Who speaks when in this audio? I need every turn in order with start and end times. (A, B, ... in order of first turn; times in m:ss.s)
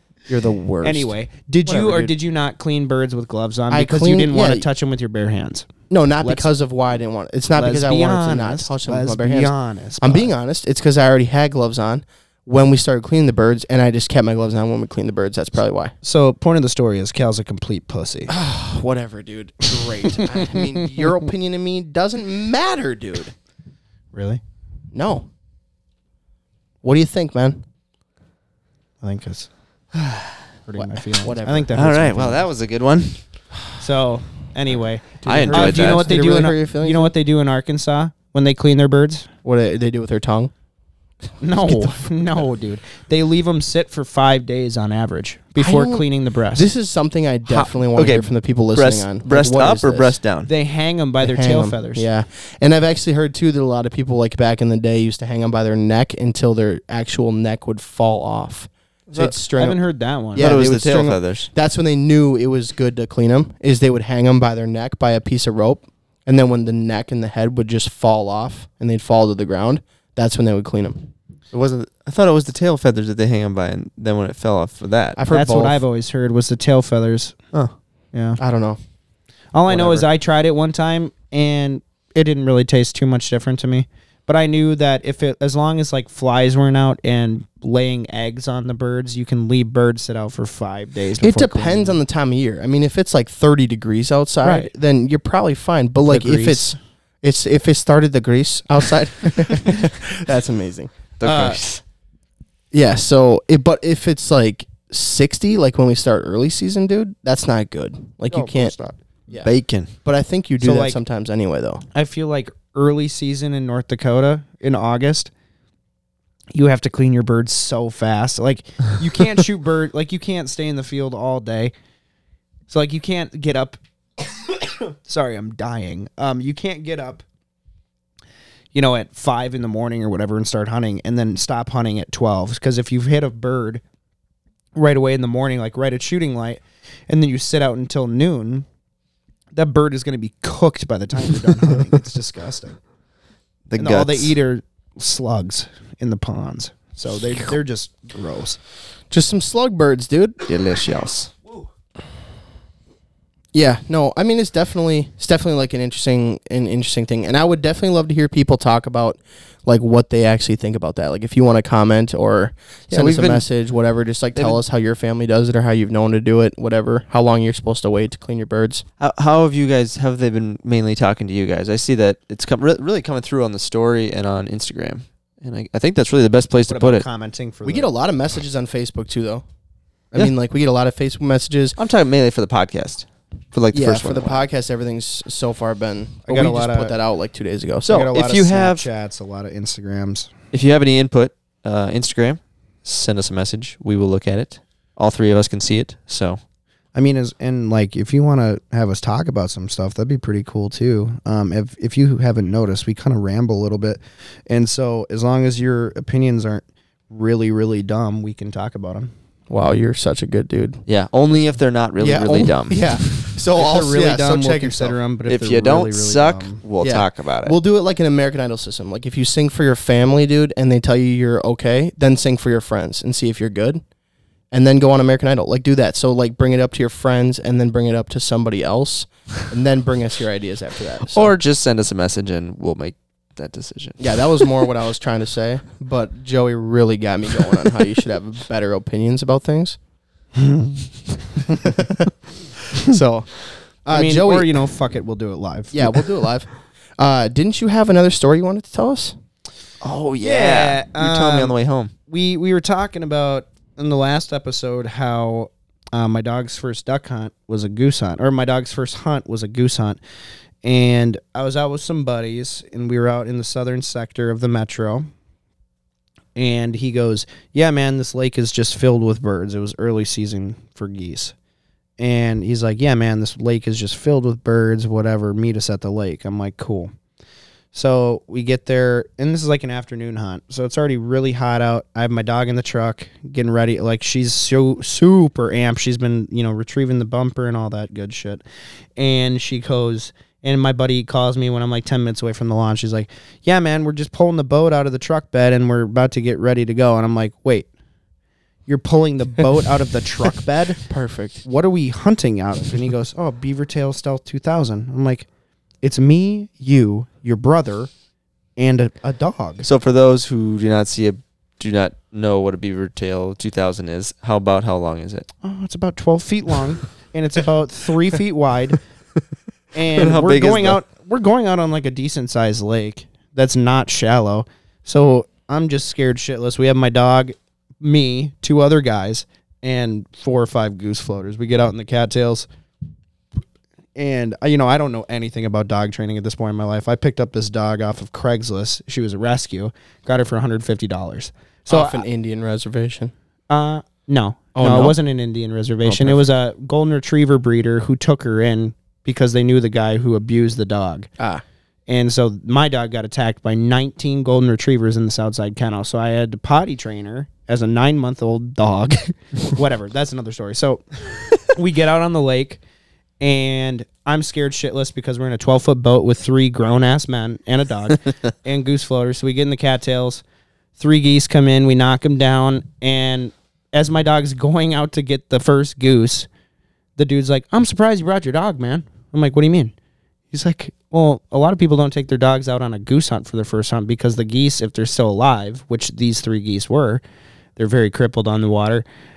0:00.3-0:01.1 A
0:00.8-0:05.7 B
0:01.7-0:02.1 A
0:03.7-0:04.7 A
0:05.9-0:15.9 A
0:06.2-0:06.5 B
0:07.5-0:10.3 B
0:16.0-0:18.3 B
0:18.3-0:23.3 A
0:20.2-0:20.6 B
0:24.1-0:24.4 B
0:24.9-0:25.3 A
0:26.8-0:27.6 A
0:29.0-0:29.5 B
0:30.0-0:30.4 C
0:30.7-0:32.4 B
0:30.8-0:32.4 A
0:31.7-0:33.2 C
0:33.8-0:39.3 B
0:35.2-0:37.1 A
0:35.2-0:36.1 C
0:39.4-0:40.5 A
0:41.4-0:46.7 B
0:41.5-0:42.2 A
0:45.6-0:50.2 A
0:47.5-0:50.5 C
0:50.5-0:52.1 B
0:51.2-0:59.8 A
0:59.2-1:00.5 B
1:00.3-1:11.1 A
1:00.4-1:01.5 C
1:11.5-1:15.2 C
1:15.2-1:15.8 A
1:15.3-1:17.4 B
1:18.1-1:18.4 B
1:18.4-1:18.8 A
1:19.5-1:32.0 B
1:19.7-1:20.1 A
1:31.2-1:40.9 A
1:34.4-1:34.7 B
1:36.0-1:36.8 B
1:41.2-1:41.8 C
1:41.2-1:41.6 B
1:42.7-1:48.7 A
1:48.3-1:49.0 B
1:49.3-1:49.9 C
1:50.0-1:51.8 A
1:50.6-1:51.0 B
1:51.9-1:55.3 B
1:56.5-2:01.7 B
2:02.7-2:03.8 B
2:05.0-2:07.2 B
2:08.7-2:13.8 B
2:14.8-2:18.7 B
2:19.5-2:22.8 B
2:23.7-2:24.3 C
2:23.8-2:28.6 B
2:29.1-2:30.4 A
2:30.5-2:31.3 C
2:33.5-2:48.8 A
2:42.9-2:43.4 C
2:44.4-2:44.6 C
2:49.0-2:57.1 C
2:56.7-2:57.9 B
2:57.6-2:59.4 A
3:00.1-3:01.8 A
3:01.8-3:04.4 C
3:03.7-3:08.1 A
3:06.3-3:07.0 B
3:07.9-3:10.3 B
3:08.0-3:08.9 C
3:10.5-3:16.4 C
3:17.0-3:29.1 B
3:29.5-3:30.8 A
3:30.9-3:32.8 C
3:32.0-3:35.0 A
3:33.5-3:36.6 B
3:35.3-3:37.6 C
3:36.8-3:43.8 A
3:44.5-3:51.4 A
3:51.1-3:54.3 C
3:54.0-3:59.8 A
4:00.4-4:00.9 B
4:01.5-4:02.1 A
4:02.8-4:04.7 A
4:03.9-4:06.1 B
4:05.7-4:09.2 A
4:09.8-4:11.9 C
4:10.2-4:11.6 B
4:12.1-4:20.0 B
4:20.6-4:25.1 B
4:26.4-4:31.3 B
4:32.0-4:36.9 B
4:37.7-4:48.4 B
4:49.0-4:57.7 B
4:58.7-5:00.8 B
5:00.9-5:01.4 A
5:01.4-5:05.3 B
5:05.8-5:07.9 B
5:08.6-5:09.7 B
5:09.6-5:15.3 C
5:15.4-5:18.8 B
5:19.8-5:32.5 B
5:20.0-5:20.8 C
5:34.0-5:42.0 B
5:41.7-5:43.1 A
5:43.5-5:51.1 B
5:44.6-5:45.0 A
5:45.8-5:46.2 A
5:51.9-6:02.6 B
6:03.2-6:10.2 B
6:10.8-6:16.3 B
6:17.0-6:19.7 B
6:20.3-6:27.0 B
6:27.6-6:28.8 B